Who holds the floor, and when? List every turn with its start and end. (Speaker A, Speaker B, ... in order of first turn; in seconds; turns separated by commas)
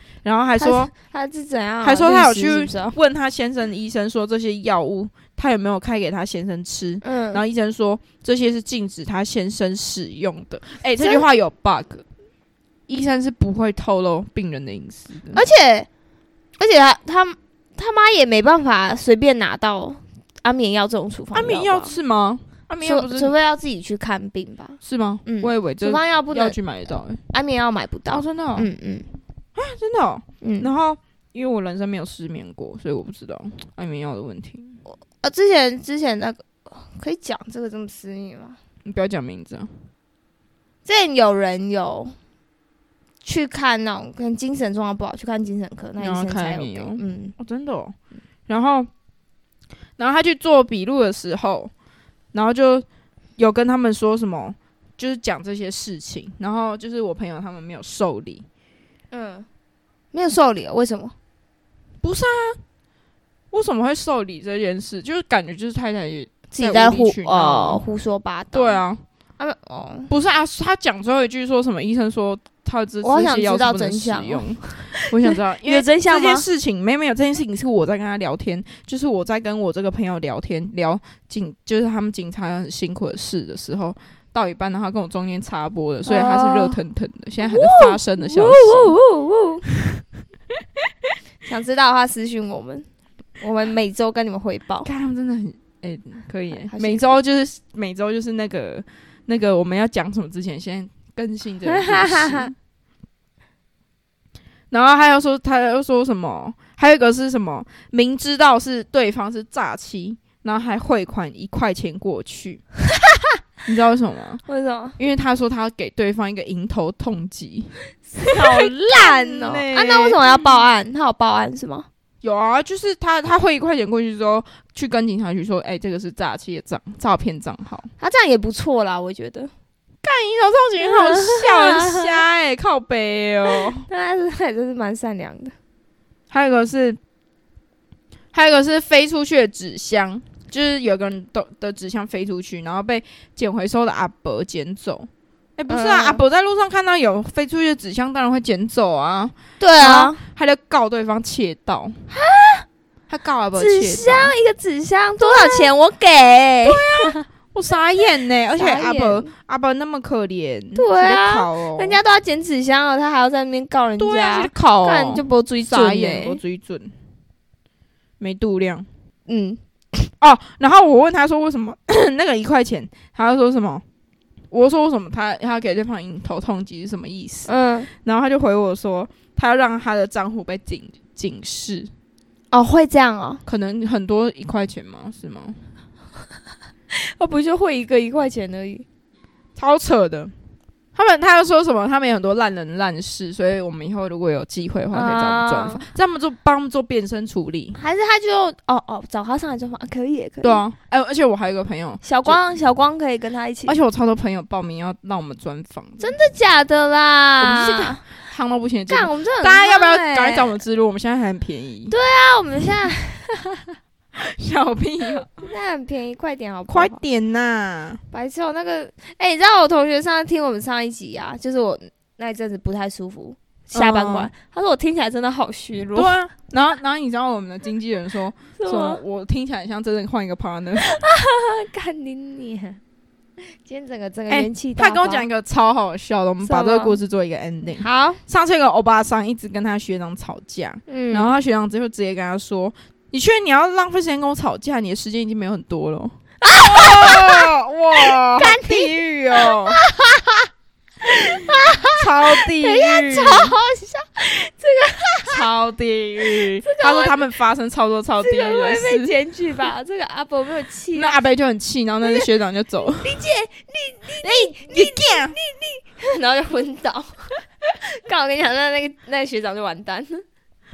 Speaker A: 0.2-0.9, Speaker B: 0.6-3.0, Speaker A: 1.8-12.0, Speaker B: 7.0-7.4, Speaker A: 12.9-15.4, Speaker B: 15.3-15.9, Speaker B: 16.6-21.9, Speaker A: 21.3-23.3, Speaker B: 22.8-26.6, Speaker A: 24.8-27.2, Speaker B: 27.3-29.1, Speaker A: 28.1-28.7, Speaker A: 29.5-34.8, Speaker B: 30.4-30.7, Speaker B: 35.0-38.6, Speaker A: 38.8-39.7, Speaker B: 40.8-42.1, Speaker B: 43.2-47.3, Speaker A: 46.0-48.0, Speaker A: 48.5-48.9, Speaker A: 50.0-51.7, Speaker A: 52.3-52.9, Speaker A: 53.4-58.5, Speaker B: 59.1-59.5, Speaker B: 60.1-61.1, Speaker A: 62.0-62.6, Speaker A: 63.5-67.8, Speaker B: 66.5-68.8, Speaker A: 68.5-69.0, Speaker B: 69.4-70.1, Speaker A: 70.1-89.0, Speaker B: 73.0-76.5, Speaker B: 86.0-86.8, Speaker B: 87.4-89.7, Speaker B: 91.4-92.9, Speaker B: 93.4-94.9, Speaker A: 94.8-102.5, Speaker B: 96.6-97.2, Speaker B: 101.7-102.5, Speaker A: 104.7-112.6, Speaker A: 113.6-114.4, Speaker B: 114.5-115.0, Speaker A: 115.0-120.2, Speaker B: 118.2-121.9, Speaker A: 122.2-127.9, Speaker B: 128.0-129.5, Speaker A: 130.0-133.8, Speaker B: 130.8-132.1, Speaker B: 133.5-135.5, Speaker A: 136.3-137.0, Speaker A: 138.3-152.0, Speaker B: 145.7-146.2, Speaker B: 149.6-150.2, Speaker B: 152.1-152.7, Speaker A: 153.1-154.3, Speaker B: 153.6-157.2, Speaker A: 155.2-155.7, Speaker A: 156.7-162.0, Speaker B: 158.6-159.3, Speaker B: 160.7-166.4, Speaker A: 164.0-166.9, Speaker A: 168.2-168.9, Speaker B: 169.3-170.1, Speaker A: 170.2-173.8, Speaker A: 174.5-181.9, Speaker B: 177.5-177.9, Speaker B: 182.5-183.4, Speaker A: 183.4-185.6, Speaker B: 186.9-188.8, Speaker A: 189.6-190.3, Speaker A: 190.9-197.8, Speaker B: 194.9-195.8, Speaker B: 197.8-200.6, Speaker A: 200.4-202.4, Speaker B: 202.0-203.8, Speaker A: 203.7-206.2, Speaker B: 206.0-208.0, Speaker A: 207.4-211.9, Speaker B: 208.9-210.5, Speaker B: 211.9-213.7, Speaker A: 214.1-215.4, Speaker B: 215.4-217.0, Speaker A: 216.7-218.0, Speaker B: 218.1-226.1, Speaker A: 223.7-224.3, Speaker A: 225.9-230.9, Speaker B: 228.6-229.0, Speaker B: 230.8-232.8, Speaker B: 233.5-235.2, Speaker A: 234.3-249.8, Speaker B: 236.4-237.0, Speaker B: 237.8-238.2, Speaker B: 240.9-241.3, Speaker B: 246.4-250.4, Speaker B: 251.0-255.4, Speaker A: 251.9-253.5, Speaker A: 255.3-259.1, Speaker B: 256.3-257.2, Speaker B: 258.2-261.2, Speaker A: 260.9-263.2, Speaker B: 263.0-270.2, Speaker A: 264.2-265.4